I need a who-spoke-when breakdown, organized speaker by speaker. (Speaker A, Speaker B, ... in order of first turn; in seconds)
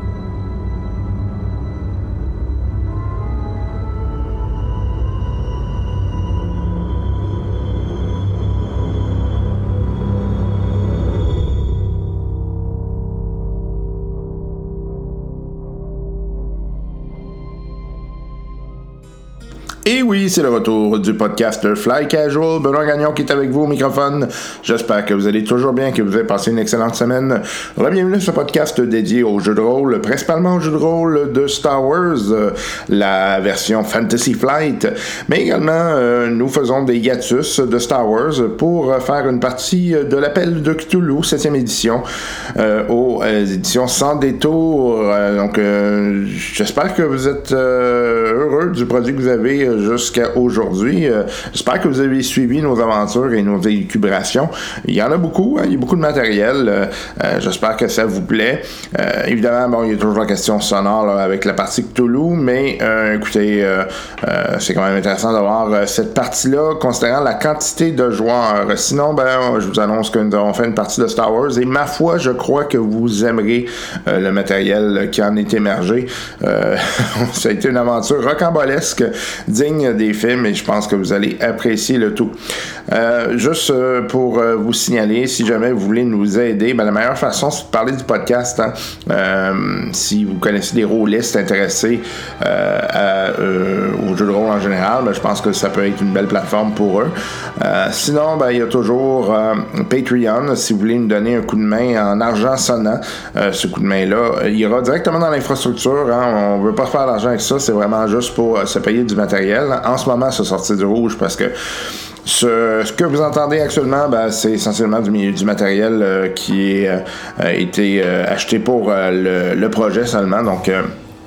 Speaker A: 19.8-82.4, 82.9-111.5, 112.2-120.9